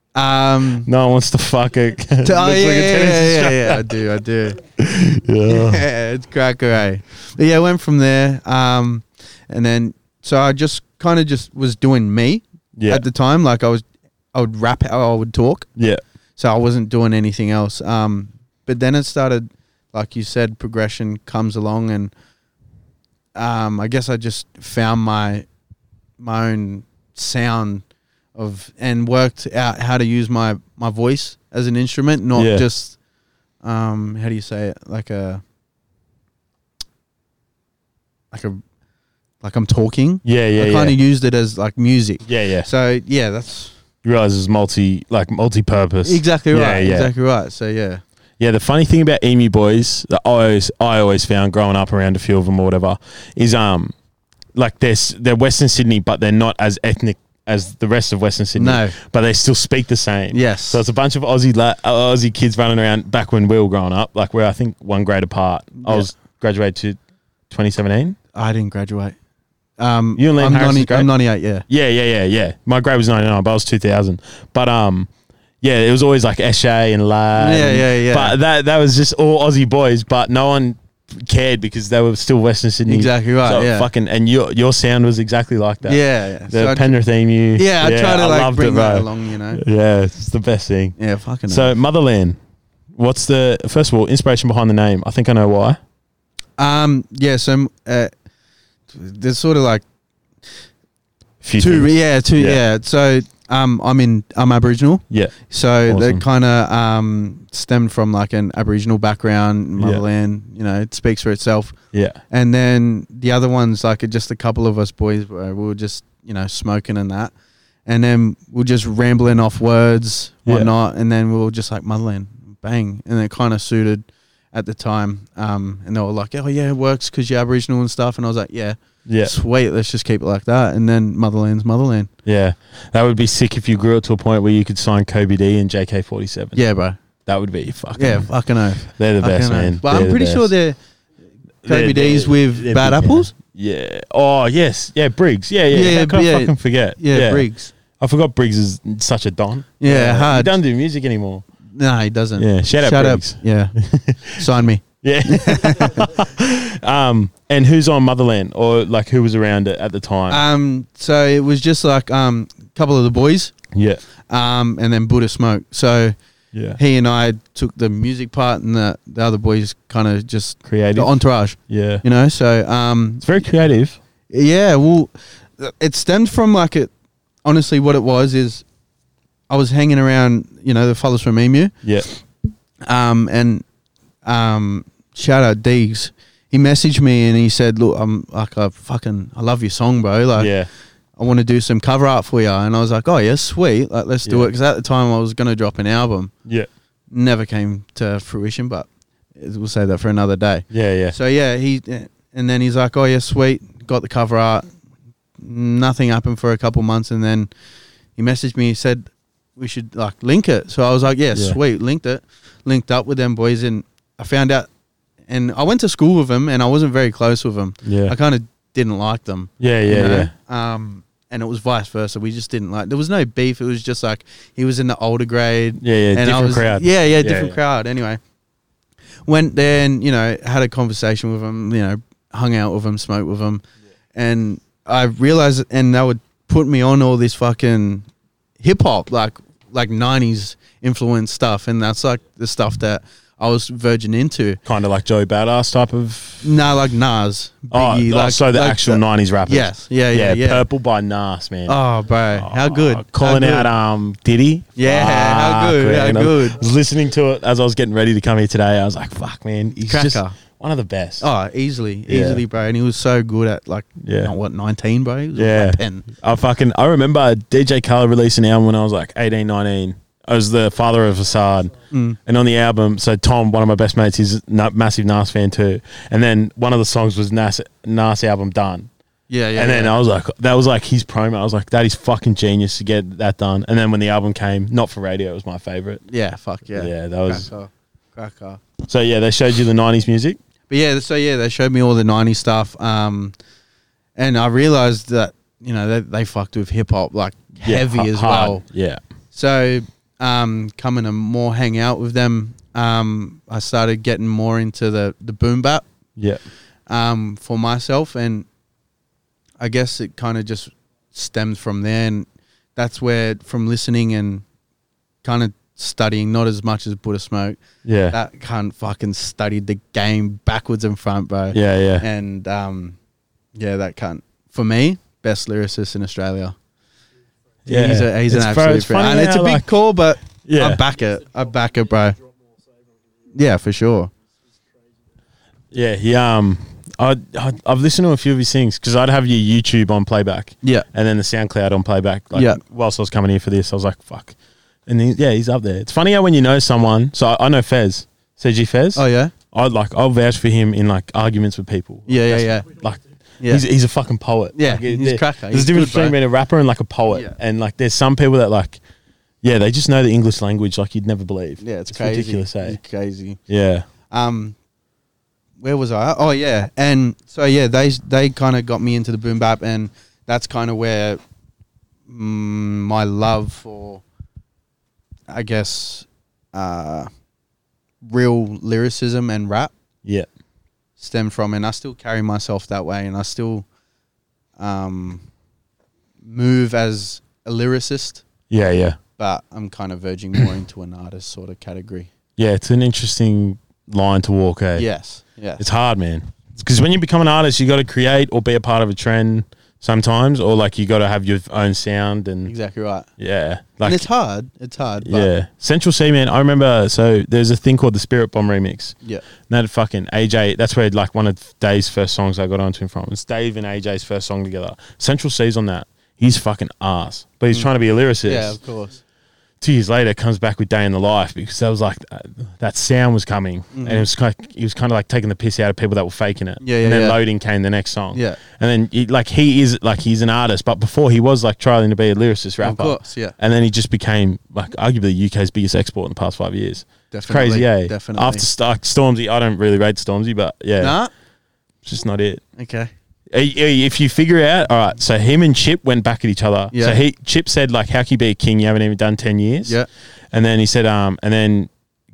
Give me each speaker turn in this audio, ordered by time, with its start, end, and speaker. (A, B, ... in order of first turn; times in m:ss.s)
0:00.2-0:00.9 A
0:00.8-0:03.9 B
0:02.2-0:04.6 A
0:04.8-0:05.8 B
0:05.5-0:15.7 A
0:12.8-0:13.1 B
0:16.4-0:22.1 A
0:23.4-0:25.5 A
0:26.2-0:33.0 A
0:32.4-0:32.7 B
0:33.6-0:35.4 A
0:38.3-0:38.6 A
0:39.4-0:43.7 A
0:40.2-0:41.0 B
0:42.3-0:42.7 B
0:44.0-0:47.1 B
0:46.0-0:48.0 A
0:48.4-0:53.9 B
0:54.6-1:07.0 B
0:58.6-0:59.0 A
1:00.3-1:00.8 A
1:05.8-1:06.1 A
1:07.5-1:08.2 B
1:08.3-1:09.2 A
1:09.8-1:11.7 A
1:10.2-1:11.1 B
1:11.7-1:15.1 B
1:15.6-1:31.0 B
1:17.4-1:18.4 A
1:22.9-1:23.9 A
1:25.8-1:27.0 A
1:27.6-1:29.6 A
1:31.0-1:31.7 A
1:31.5-1:32.4 B
1:33.0-1:35.8 B
1:36.6-1:38.1 A
1:38.9-1:39.8 A
1:41.4-1:42.6 B
1:41.6-1:51.8 A
1:45.1-1:45.4 B
1:45.9-1:46.2 B
1:49.8-1:50.0 B
1:51.9-1:52.2 B
1:52.3-1:57.3 A
1:57.9-2:12.1 A
2:00.5-2:00.7 B
2:09.1-2:09.3 B
2:12.2-2:16.6 B
2:16.6-2:17.0 A
2:17.3-2:18.3 B
2:18.0-2:20.8 A
2:18.8-2:20.5 B
2:21.6-2:23.3 A
2:21.6-2:27.5 B
2:25.7-2:27.7 A
2:28.0-2:31.5 B
2:29.8-2:30.6 A
2:31.7-2:33.7 A
2:32.4-2:34.4 B
2:34.3-2:36.2 A
2:35.0-2:40.4 B
2:40.3-2:43.6 A
2:43.7-2:44.0 B
2:44.3-2:46.2 A
2:46.5-2:46.8 B
2:46.8-2:53.3 A
2:50.7-2:52.0 B
2:53.2-2:54.0 B
2:54.3-2:56.9 A
2:57.4-2:58.6 A
2:59.5-3:02.2 A
3:02.8-3:03.6 A
3:04.2-3:10.5 A
3:10.4-3:10.7 B
3:11.2-3:16.3 A
3:14.2-3:14.5 B
3:17.1-3:24.7 A
3:20.7-3:21.2 B
3:25.4-3:27.5 A
3:28.2-3:34.7 A
3:35.3-3:48.2 A
3:37.8-3:38.2 B
3:39.6-3:40.3 B
3:45.8-3:47.6 B
3:49.3-3:53.6 A
3:54.2-3:58.1 A
3:58.6-4:04.6 A
4:04.7-4:06.5 B
4:06.4-4:10.6 A
4:07.7-4:11.8 B
4:11.7-4:13.7 A
4:12.3-4:21.3 B
4:14.8-4:16.6 A
4:19.8-4:20.4 A
4:21.2-4:26.1 A
4:22.1-4:22.4 B
4:24.0-4:24.3 B
4:25.4-4:38.9 B
4:31.9-4:32.2 A
4:39.3-4:40.0 A
4:39.6-4:46.0 B
4:46.1-4:48.6 A
4:46.8-4:47.5 B
4:48.8-4:50.4 B
4:50.7-4:53.3 A
4:54.2-4:58.6 A
4:57.6-4:59.0 B
4:59.3-5:05.8 A
5:06.2-5:06.4 B
5:06.9-5:08.5 A
5:09.6-5:14.4 A
5:15.2-5:17.6 A
5:17.8-5:18.2 B
5:18.1-5:23.0 A
5:21.5-5:22.1 B
5:23.6-5:26.6 A
5:27.7-5:29.7 B
5:27.7-5:32.2 A
5:30.4-5:30.8 B
5:33.3-5:34.1 A
5:35.7-5:58.8 B
5:42.3-5:42.6 A
5:49.0-5:49.3 A
5:52.1-5:52.7 A
5:54.5-5:56.2 A
5:57.1-5:57.4 A
5:59.4-6:02.8 B
6:01.6-6:03.4 A
6:03.5-6:03.9 B
6:04.1-6:04.6 A
6:05.6-6:11.2 A
6:12.1-6:14.0 A
6:15.3-6:17.1 A
6:18.0-6:19.7 A
6:21.0-6:23.7 A
6:24.6-6:25.2 A
6:26.2-6:28.2 A
6:28.5-6:29.0 B
6:29.2-6:32.1 A
6:32.4-6:34.9 B
6:34.8-6:35.6 A
6:35.6-6:42.5 B
6:42.5-6:43.1 A
6:43.2-6:44.1 B
6:43.8-6:45.3 A
6:45.0-6:49.0 B
6:49.5-6:58.6 B
6:58.2-6:59.0 A
6:59.6-7:21.0 B
7:03.7-7:04.1 A
7:06.6-7:07.2 A
7:08.1-7:08.4 A
7:12.6-7:13.4 A
7:17.1-7:18.5 A
7:20.8-7:21.1 A
7:21.8-7:22.4 B
7:22.6-7:22.9 A
7:23.3-7:29.8 B
7:26.7-7:27.0 A
7:30.3-7:31.7 B